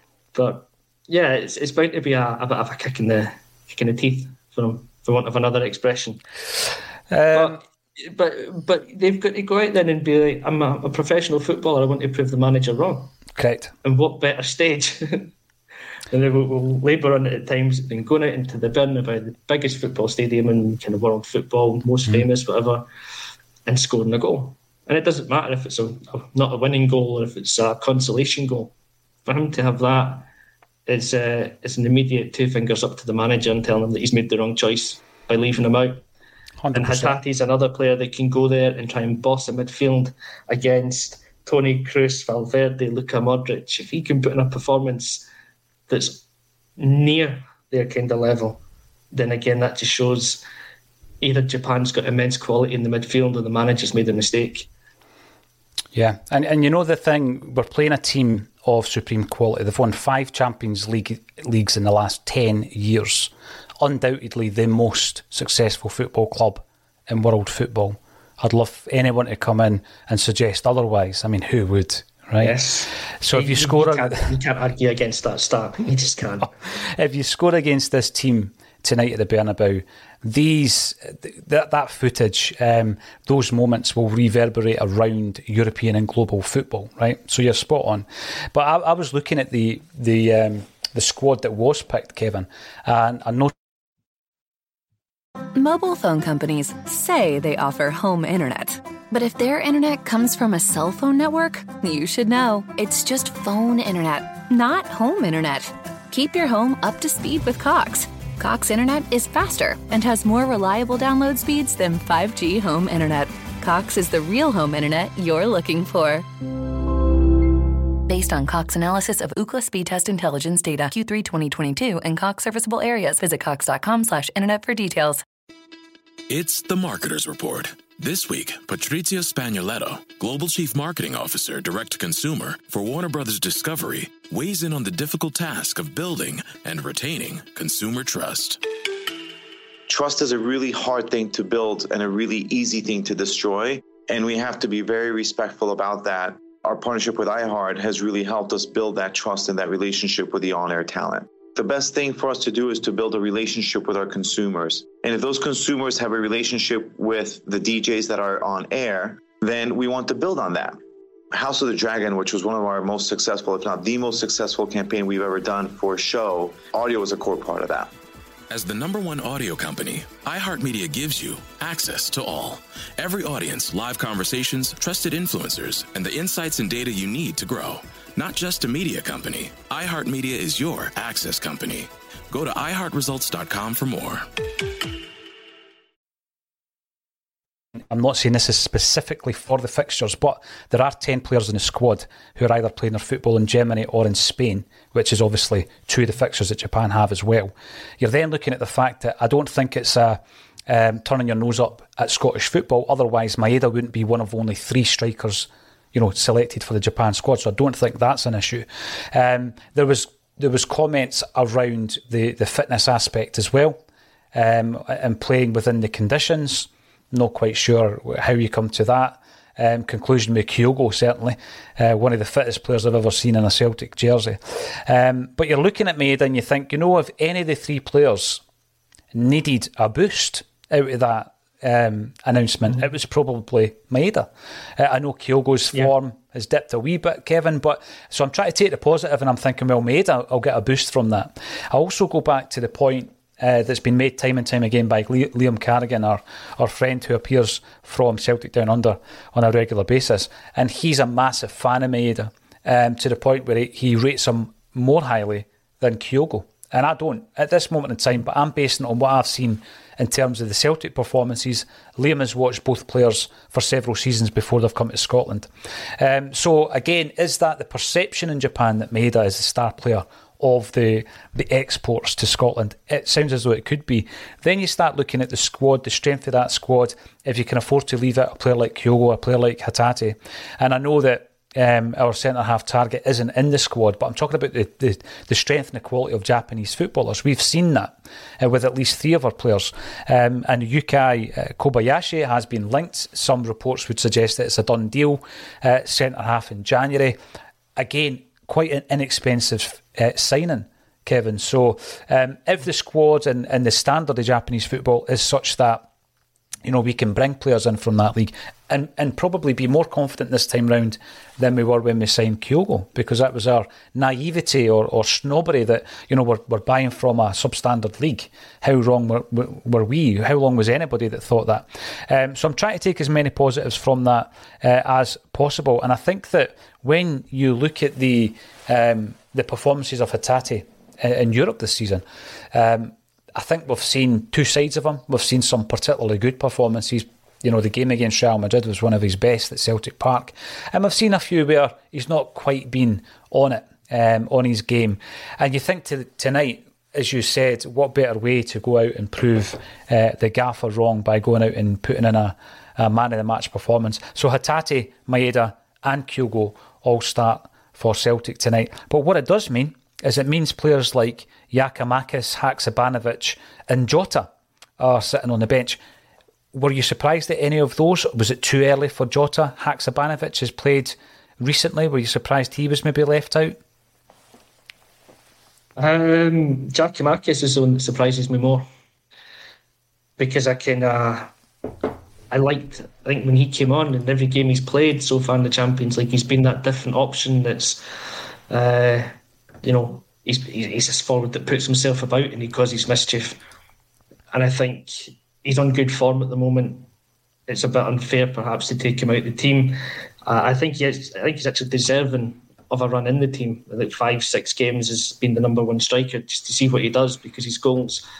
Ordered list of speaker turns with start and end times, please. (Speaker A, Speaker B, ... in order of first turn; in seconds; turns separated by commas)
Speaker A: 0.3-6.2, Speaker B: 7.1-7.5, Speaker A: 7.3-13.2, Speaker B: 13.3-13.7, Speaker A: 13.8-15.3, Speaker A: 16.1-22.8, Speaker A: 23.6-28.7, Speaker A: 29.2-30.3, Speaker A: 30.9-36.0, Speaker B: 36.6-37.2, Speaker A: 36.7-45.2, Speaker A: 45.9-46.2, Speaker A: 46.8-50.4, Speaker A: 51.2-54.7, Speaker B: 55.9-72.5, Speaker A: 72.4-76.5, Speaker B: 73.2-74.2, Speaker B: 76.4-93.5, Speaker C: 95.5-116.3, Speaker C: 118.1-125.2, Speaker D: 126.3-138.6, Speaker E: 139.9-160.8, Speaker E: 161.3-167.9, Speaker D: 168.5-184.2, Speaker B: 187.9-213.8, Speaker B: 214.3-228.4, Speaker B: 229.1-265.5, Speaker B: 266.0-297.2, Speaker B: 297.8-305.9, Speaker B: 306.6-365.8, Speaker B: 366.5-373.6, Speaker A: 375.8-378.6, Speaker A: 380.2-381.3, Speaker A: 382.3-387.8, Speaker A: 388.5-389.1, Speaker A: 389.6-393.4, Speaker A: 394.3-396.9, Speaker A: 397.5-408.0